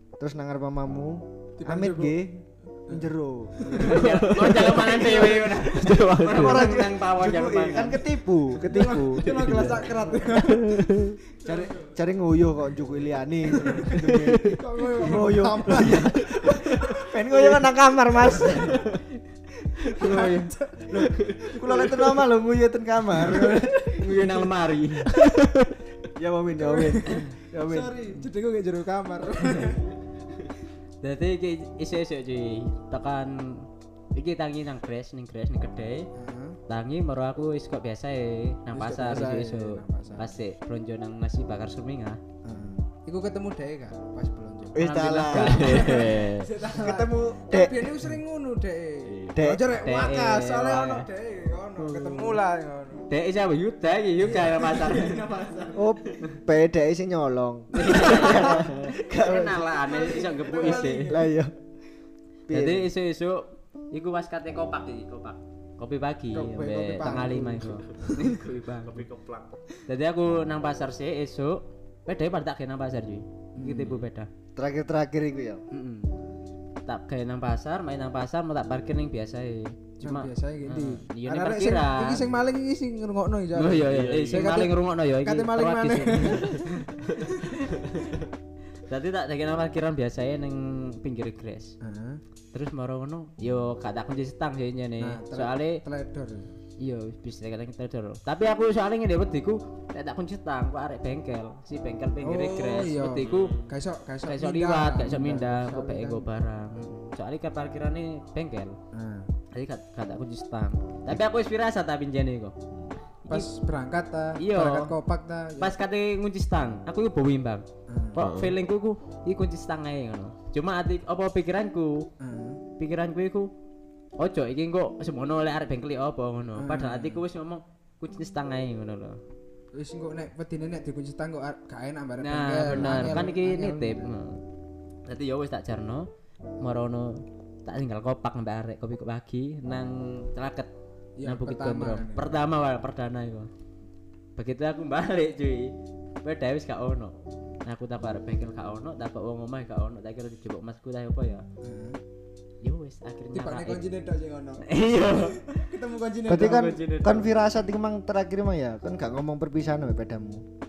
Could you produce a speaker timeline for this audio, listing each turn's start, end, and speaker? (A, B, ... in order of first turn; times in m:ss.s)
0:00.2-0:10.0 A
0:01.6-0:02.2 B
0:03.6-0:04.0 B
0:03.7-0:08.0 C
0:03.8-0:06.8 D
0:08.6-0:10.9 B
0:09.1-0:11.2 D
0:11.4-0:11.9 B
0:11.4-0:18.8 A
0:13.6-0:16.8 B
0:13.9-0:14.6 D
0:15.7-0:17.0 D
0:18.5-0:19.0 D
0:19.8-0:20.9 B
0:19.9-0:20.5 C
0:20.0-0:20.3 A
0:20.8-0:24.3 A
0:21.2-0:22.0 D
0:23.2-0:23.7 B
0:23.9-0:25.1 C
0:25.2-0:25.5 D
0:26.1-0:28.0 A
0:26.6-0:29.8 B
0:31.0-0:36.1 C
0:36.2-0:36.6 B
0:36.7-0:42.2 C
0:38.7-0:40.3 B
0:42.4-0:53.1 B
0:42.5-0:42.8 A
0:44.7-0:46.1 A
0:44.8-0:46.1 C
0:45.3-0:46.5 D
0:46.6-0:47.9 A
0:49.0-0:49.5 D
0:49.3-0:49.9 A
0:49.8-0:51.1 C
0:51.8-0:52.4 C
0:53.1-0:55.7 C
0:54.2-0:55.8 B
0:55.7-1:01.5 A
0:57.7-1:01.1 C
0:57.8-0:58.6 B
0:59.8-1:01.3 B
1:02.5-1:02.9 A
1:02.5-1:09.0 C
1:06.3-1:08.2 B
1:08.8-1:09.6 D
1:09.9-1:14.3 C
1:13.5-1:14.0 B
1:14.6-1:15.6 A
1:15.7-1:16.1 C
1:16.8-1:22.3 C
1:20.0-1:27.4 B
1:23.5-1:26.7 C
1:23.9-1:24.6 D
1:27.8-1:28.2 D
1:28.9-1:31.8 C
1:31.8-1:32.2 B
1:32.5-1:35.8 C
1:35.0-1:36.5 B
1:36.8-1:43.6 C
1:42.2-1:46.2 B
1:43.2-1:43.7 D
1:44.2-1:48.8 C
1:48.9-1:49.3 B
1:49.5-1:52.5 C
1:53.2-1:53.5 C
1:53.3-1:55.7 B
1:54.4-1:54.9 C
1:55.6-2:02.1 C
1:57.9-1:58.2 B
1:58.2-1:58.5 D
2:02.2-2:02.6 B
2:02.8-2:03.5 C
2:04.2-2:09.2 C
2:06.6-2:07.2 B
2:09.7-2:14.1 B
2:12.2-2:14.4 C
2:12.8-2:13.3 A
2:15.1-2:16.1 C
2:16.6-2:20.7 C
2:21.2-2:22.3 B
2:21.2-2:23.5 C
2:24.4-2:31.4 C
2:31.6-2:32.0 B
2:32.6-2:33.8 C
2:33.3-2:36.8 B
2:34.6-2:35.4 C
2:36.2-2:40.4 A
2:36.3-2:37.3 C